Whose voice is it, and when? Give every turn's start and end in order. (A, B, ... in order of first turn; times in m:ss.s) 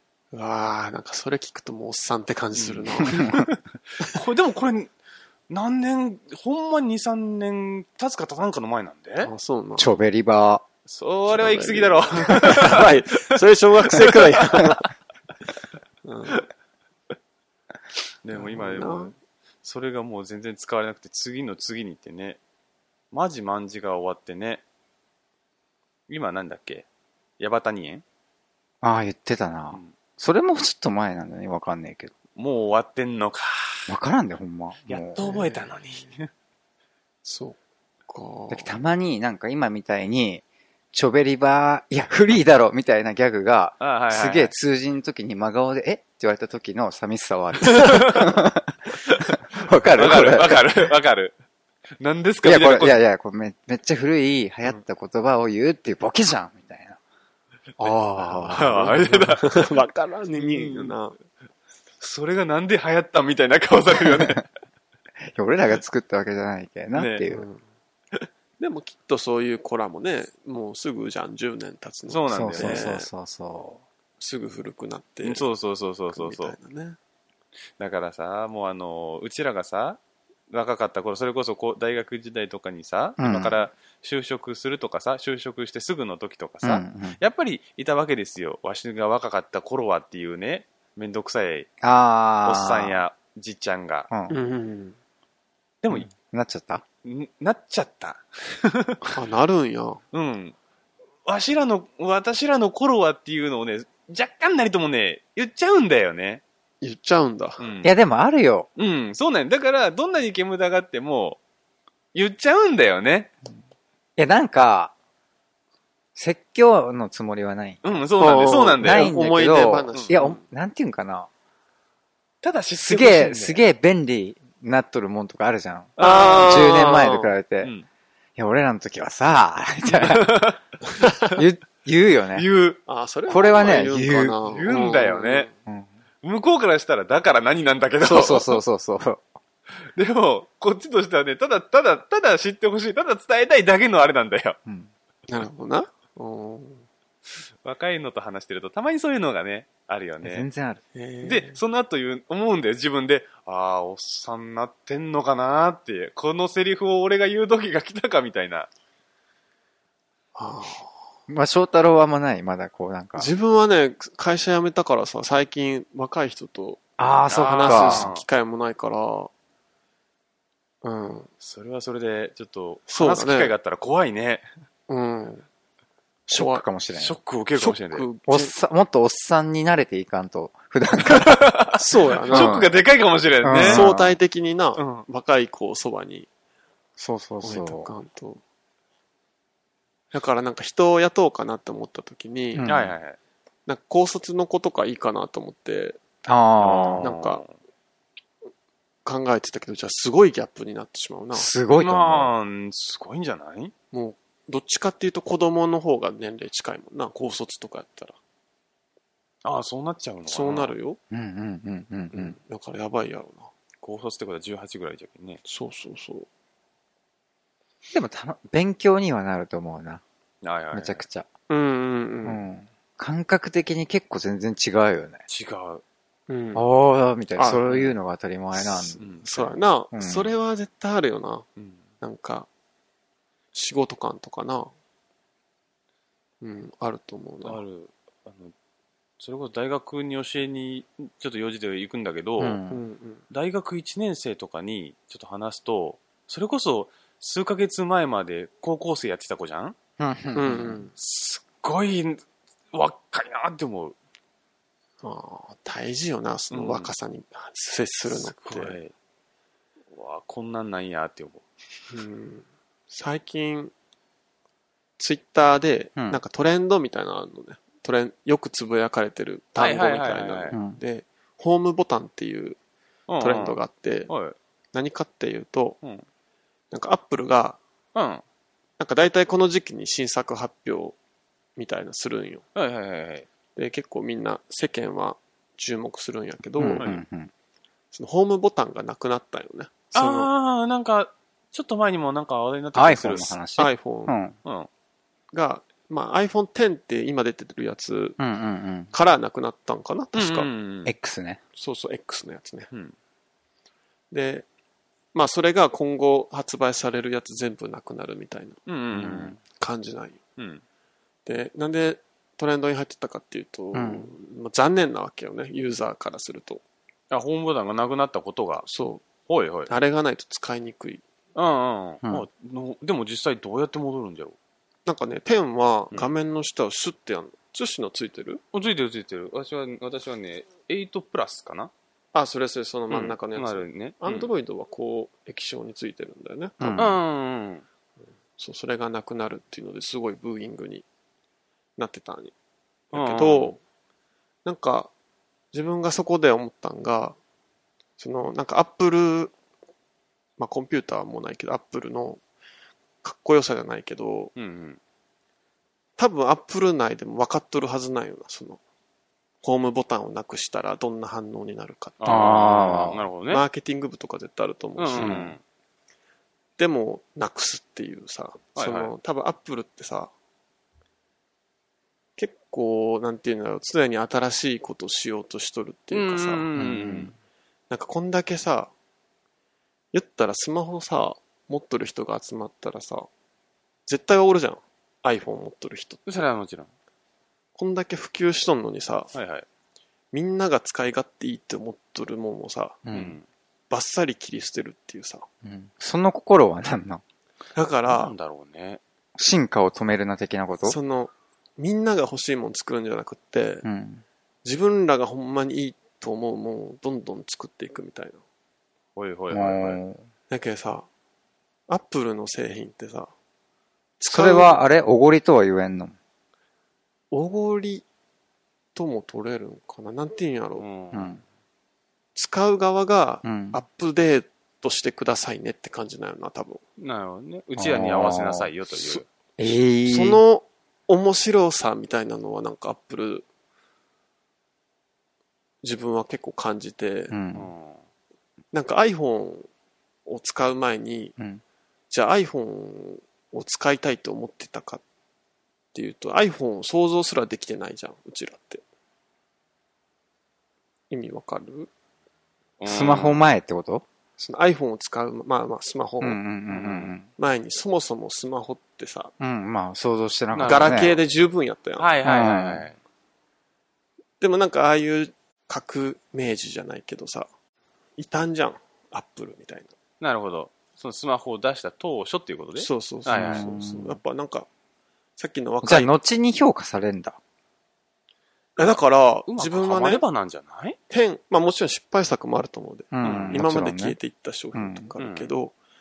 0:00.3-0:03.3 A
0:02.6-0:04.9 B
0:05.5-0:09.3 B
0:09.2-0:09.9 A
0:09.8-0:10.6 C
0:10.9-0:13.4 B
0:11.3-0:14.9 A
0:14.0-0:14.7 B
0:16.0-0:16.5 A
0:18.2-0:22.4 B
0:18.3-0:19.1 A
0:23.1-0:24.6 B
0:26.1-0:26.9 B
0:27.4-0:28.0 B
0:28.8-0:32.1 C
0:32.4-0:33.9 B
0:33.9-0:35.2 C
0:34.9-0:36.3 B
0:35.2-0:35.7 A
0:37.2-0:37.6 A
0:38.1-0:38.7 A
0:38.5-0:48.7 C
0:43.8-0:44.5 B
0:47.6-0:48.3 B
0:49.1-0:51.4 B
0:49.5-0:50.6 C
0:52.0-0:53.0 B
0:52.4-0:57.0 C
0:57.8-0:59.0 C
0:58.2-1:01.2 A
0:58.5-0:59.6 B
1:00.4-1:00.9 B
1:02.0-1:04.4 B
1:05.2-1:07.4 C
1:06.9-1:07.2 B
1:07.3-1:07.6 A
1:08.6-1:13.1 A
1:12.1-1:12.9 B
1:12.3-1:13.8 C
1:14.2-1:15.5 A
1:15.2-1:16.6 B
1:16.1-1:17.0 A
1:17.8-1:20.0 B
1:20.5-1:31.7 B
1:23.2-1:23.6 C
1:26.6-1:27.2 C
1:31.8-1:33.0 C
1:32.4-1:34.1 B
1:34.1-1:34.4 C
1:34.3-1:35.0 A
1:35.8-1:36.1 B
1:35.9-1:36.8 C
1:37.0-1:39.1 B
1:39.1-1:40.0 A
1:40.1-1:40.6 B
1:41.2-1:46.4 B
1:46.8-1:47.6 A
1:47.6-1:47.9 B
1:47.8-1:48.7 C
1:48.8-1:51.4 B
1:52.1-1:53.3 B
1:54.2-1:54.9 C
1:56.2-1:58.0 C
1:57.8-1:59.1 B
1:58.2-2:00.4 A
1:58.8-2:01.3 C
2:02.4-2:03.6 B
2:02.8-2:07.7 C
2:06.0-2:07.0 B
2:06.0-2:07.3 A
2:07.6-2:07.9 B
2:08.4-2:10.4 C
2:09.9-2:10.6 B
2:11.3-2:12.5 C
2:12.4-2:12.8 B
2:12.9-2:15.6 A
2:13.3-2:14.4 C
2:14.5-2:15.5 B
2:16.2-2:18.6 B
2:18.0-2:19.2 C
2:19.9-2:24.6 B
2:24.7-2:24.9 C
2:25.3-2:26.9 A
2:27.6-2:30.5 B
2:30.2-2:30.8 C
2:31.0-2:31.6 A
2:31.2-2:38.7 B
2:40.4-2:40.9 A
2:41.3-2:43.3 C
2:43.2-2:49.3 A
2:47.0-2:48.1 C
2:47.3-2:48.2 B
2:50.8-2:51.3 A
2:51.4-2:54.5 B
2:52.9-2:53.5 A
2:54.9-2:55.5 A
2:56.3-2:57.2 C
2:56.3-2:56.6 A
2:56.9-2:58.1 B
2:57.6-2:58.5 A
2:58.3-3:01.5 C
3:01.1-3:03.8 B
3:01.8-3:02.6 A
3:02.3-3:02.7 C
3:03.4-3:04.2 C
3:03.6-3:06.3 A
3:04.8-3:05.0 B
3:07.0-3:07.9 C
3:07.4-3:08.4 A
3:10.1-3:12.7 A
3:12.6-3:13.0 C
3:12.7-3:13.2 B
3:13.7-3:16.0 A
3:16.2-3:17.1 C
3:16.6-3:17.5 B
3:17.0-3:17.4 A
3:19.0-3:21.5 A
3:21.3-3:22.3 C
3:21.8-3:23.7 B
3:23.9-3:28.2 A
3:29.4-3:30.7 B
3:30.3-3:31.0 A
3:31.1-3:32.4 C
3:32.1-3:33.5 A
3:33.8-3:35.4 B
3:35.4-3:36.3 A
3:37.9-3:40.0 C
3:40.4-3:41.0 B
3:40.7-3:41.3 C
3:41.5-3:42.4 A
3:42.2-3:45.2 C
3:45.3-3:45.8 B
3:46.3-3:46.6 A
3:46.6-3:50.3 C
3:47.4-3:47.7 A
3:48.5-3:51.5 A
3:49.0-3:49.5 B
3:51.6-3:51.8 B
3:52.0-3:52.5 A
3:53.5-3:54.7 A
3:56.4-3:57.6 A
3:57.4-3:58.5 B
3:59.2-4:02.6 B
4:02.4-4:02.8 C
4:02.7-4:03.2 A
4:03.3-4:09.8 B
4:10.0-4:10.8 C
4:10.4-4:10.9 A
4:11.0-4:14.0 B
4:15.0-4:18.8 A
4:16.5-4:16.9 B
4:18.1-4:18.9 B
4:19.9-4:21.4 B
4:21.9-4:23.7 A
4:25.0-4:32.6 A
4:29.6-4:30.6 B
4:30.5-4:30.8 C
4:33.1-4:34.4 B
4:33.2-4:34.1 A
4:34.7-4:35.8 A
4:36.7-4:37.6 A
4:38.0-4:38.2 B
4:38.8-4:41.0 A
4:41.6-4:42.4 A
4:42.6-4:43.3 B
4:43.6-4:46.9 A
4:46.6-4:47.3 C
4:46.8-4:47.0 B
4:47.9-4:50.3 A
4:49.9-4:53.4 B
4:52.8-4:54.4 C
4:53.6-4:54.2 A
4:54.4-4:54.7 B
4:55.3-4:58.2 A
4:58.2-4:58.9 C
4:58.9-5:00.5 A
5:00.2-5:00.9 B
5:00.9-5:01.4 C
5:01.6-5:02.7 A
5:04.1-5:04.5 A
5:05.1-5:10.2 A
5:08.7-5:09.4 B
5:10.4-5:10.6 B
5:11.3-5:16.6 A
5:13.7-5:14.1 C
5:17.1-5:18.7 B
5:18.6-5:19.1 A
5:19.3-5:19.7 B
5:19.7-5:21.0 A
5:21.4-5:24.4 B
5:24.9-5:28.4 A
5:28.5-5:31.7 B
5:32.1-5:36.8 A
5:32.9-5:34.3 B
5:36.6-5:37.0 C
5:36.8-5:37.6 B
5:38.4-5:40.8 A
5:41.8-5:42.3 A
5:42.9-5:43.6 A
5:42.9-5:43.6 B
5:44.4-5:44.9 A
5:45.5-5:47.2 A
5:48.0-5:49.3 A
5:50.4-5:52.2 A
5:53.0-5:54.3 A
5:54.4-5:54.8 B
5:56.0-5:58.6 A
5:59.4-6:02.8 A
6:02.0-6:03.4 B
6:02.1-6:03.0 C
6:03.3-6:05.3 A
6:04.8-6:05.4 B
6:05.0-6:05.3 C
6:06.6-6:10.1 A
6:08.6-6:08.9 B
6:12.2-6:16.5 A
6:15.9-6:17.1 B
6:16.6-6:17.2 C
6:17.7-6:18.7 A
6:19.9-6:23.1 A
6:23.9-6:26.0 A
6:26.1-6:26.7 B
6:27.6-6:29.1 A
6:29.1-6:29.5 B
6:30.1-6:32.8 A
6:32.8-6:33.2 C
6:32.9-6:33.3 B
6:33.7-6:35.3 A
6:35.4-6:37.0 C
6:37.6-6:38.1 A
6:37.9-6:38.8 B
6:39.2-6:40.8 C
6:40.6-6:43.7 A
6:43.6-6:44.0 C
6:44.4-6:48.2 A
6:49.0-6:49.8 B
6:49.3-6:50.0 C
6:50.3-6:50.9 A
6:51.7-6:53.1 A
6:54.0-6:54.6 A
6:54.1-6:56.0 C
6:57.1-6:57.9 A
6:58.8-7:00.6 A
7:00.6-7:01.2 B
7:00.9-7:01.2 C
7:02.2-7:06.6 A
7:03.2-7:03.6 C
7:06.8-7:09.1 B
7:07.6-7:10.2 C
7:09.8-7:13.3 A
7:15.6-7:17.2 A
7:17.1-7:17.5 C
7:17.3-7:17.9 B
7:18.5-7:19.5 A
7:20.1-7:21.2 A
7:21.9-7:24.8 A
7:25.7-7:28.6 A
7:30.9-7:31.7 A
7:32.6-7:33.2 B
7:32.6-7:33.8 C
7:34.2-7:36.2 A
7:36.0-7:37.1 C
7:36.5-7:36.9 B
7:37.2-7:39.1 A
7:39.2-7:41.0 C
7:40.3-7:40.9 B
7:40.4-7:41.9 A
7:41.8-7:42.8 B
7:42.0-7:42.6 C
7:44.2-7:47.3 A
7:48.0-7:49.7 A
7:50.0-7:53.5 B
7:52.6-7:54.5 A
7:53.1-7:54.0 C
7:55.2-7:56.0 A
7:55.6-7:57.2 C
7:58.6-8:00.0 A
7:59.3-8:00.8 B
8:00.9-8:05.6 A
8:02.9-8:04.0 C
8:03.0-8:03.4 B
8:04.5-8:04.9 C
8:05.0-8:05.3 B